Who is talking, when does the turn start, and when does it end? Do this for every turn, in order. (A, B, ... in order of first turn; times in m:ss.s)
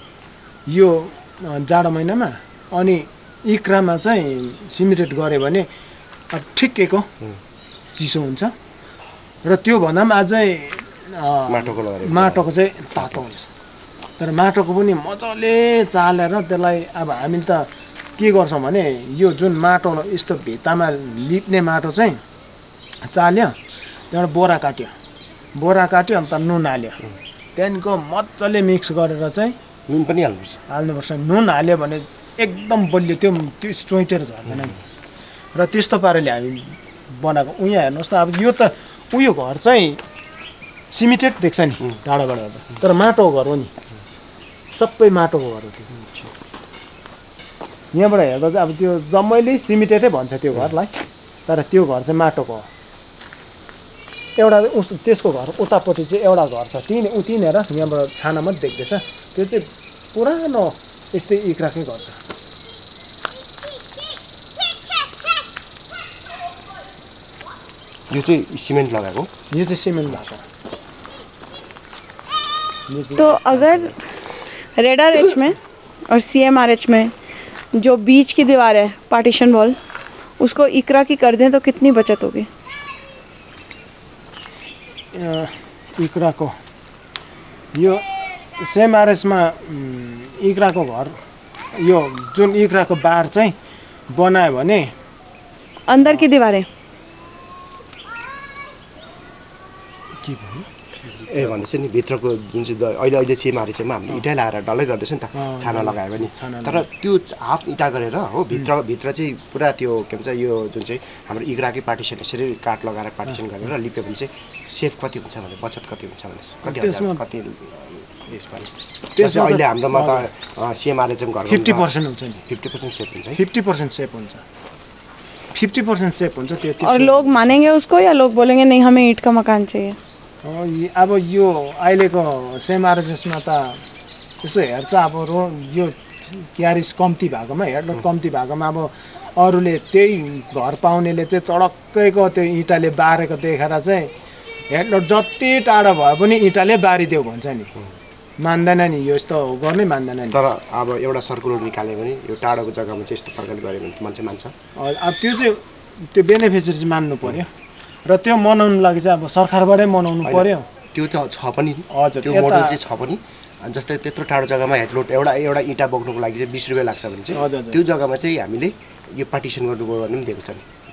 0:00.7-0:05.7 A
0:06.3-0:07.1 A
0:07.9-0:08.5 A
0:09.4-0:13.5 A
0:11.5-0:13.3 B
0:14.2-0:22.2 A
0:23.0-0:23.5 A
0:24.1-0:24.9 A
0:25.5-0:29.6 A
0:29.9-0:30.6 B
0:30.7-0:34.8 A
0:35.5-0:40.0 A
0:40.9-0:43.7 A
0:44.7-0:45.9 A
0:47.9-0:52.7 A
0:54.4-1:02.2 A
1:08.1-1:09.3 B
1:09.5-1:10.4 A
1:12.9-1:13.9 A
1:13.2-1:14.0 C
1:14.8-1:17.1 C
1:17.7-1:19.8 C
1:20.4-1:22.5 C
1:25.1-1:26.6 A
1:27.7-1:28.0 A
1:28.6-1:31.2 A
1:31.7-1:33.6 A
1:34.1-1:34.9 A
1:35.9-1:36.7 C
1:40.2-1:40.7 A
1:41.2-2:01.8 B
1:45.3-1:46.9 A
1:56.6-1:57.2 A
1:59.1-2:00.3 A
2:01.5-2:02.4 A
2:02.5-2:03.4 B
2:03.3-2:04.4 A
2:05.5-2:07.5 A
2:06.8-2:10.0 C
2:10.4-2:13.8 A
2:14.4-2:24.1 A
2:24.7-2:27.7 A
2:28.4-2:30.4 A
2:30.3-2:34.5 B
2:34.8-2:37.5 A
2:38.0-2:40.7 A
2:40.2-2:50.6 B
2:41.9-2:42.8 A
2:47.3-2:47.8 A